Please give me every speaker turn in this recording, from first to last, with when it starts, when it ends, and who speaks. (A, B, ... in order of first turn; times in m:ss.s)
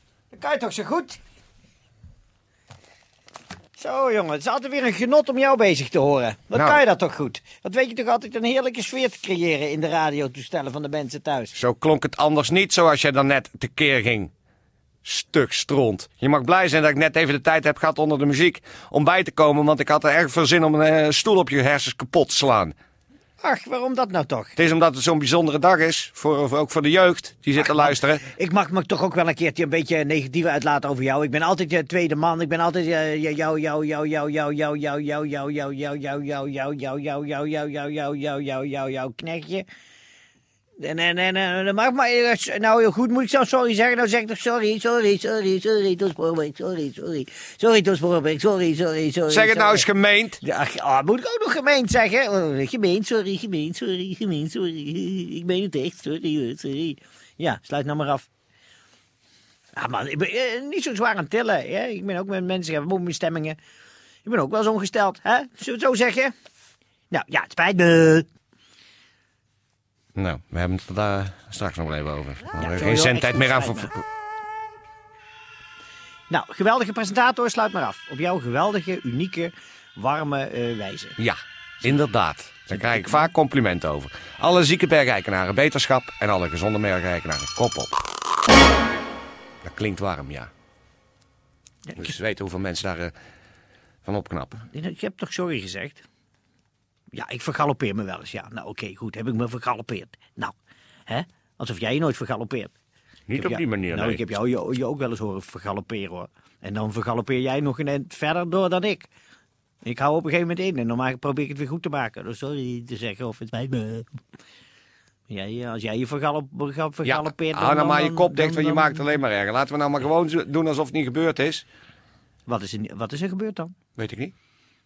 0:00.3-0:01.2 A
0:03.8-0:11.5 A
0:11.6-0:14.3 B
0:15.0-0:22.7 B
0:23.4-0:24.5 A
0:24.6-0:28.2 B
0:27.6-0:39.6 A
0:40.8-0:49.9 A
0:49.3-0:50.4 B
0:50.4-0:58.3 A
0:59.7-1:03.6 A
1:04.2-1:06.3 A
1:07.1-1:08.2 A
1:10.2-1:13.9 B
1:12.6-1:13.9 A
1:16.3-1:21.2 A
1:21.2-1:27.9 B
1:22.7-1:23.2 A
1:29.6-1:30.5 B
1:32.0-1:33.1 B
1:34.0-1:34.6 B
1:34.7-1:36.0 A
1:37.1-1:40.5 A
1:41.1-1:42.7 A
1:43.3-1:49.1 A
1:49.8-1:54.1 A
1:55.3-1:59.1 A
1:57.1-2:01.6 B
2:02.4-2:03.7 A
2:04.0-2:04.3 B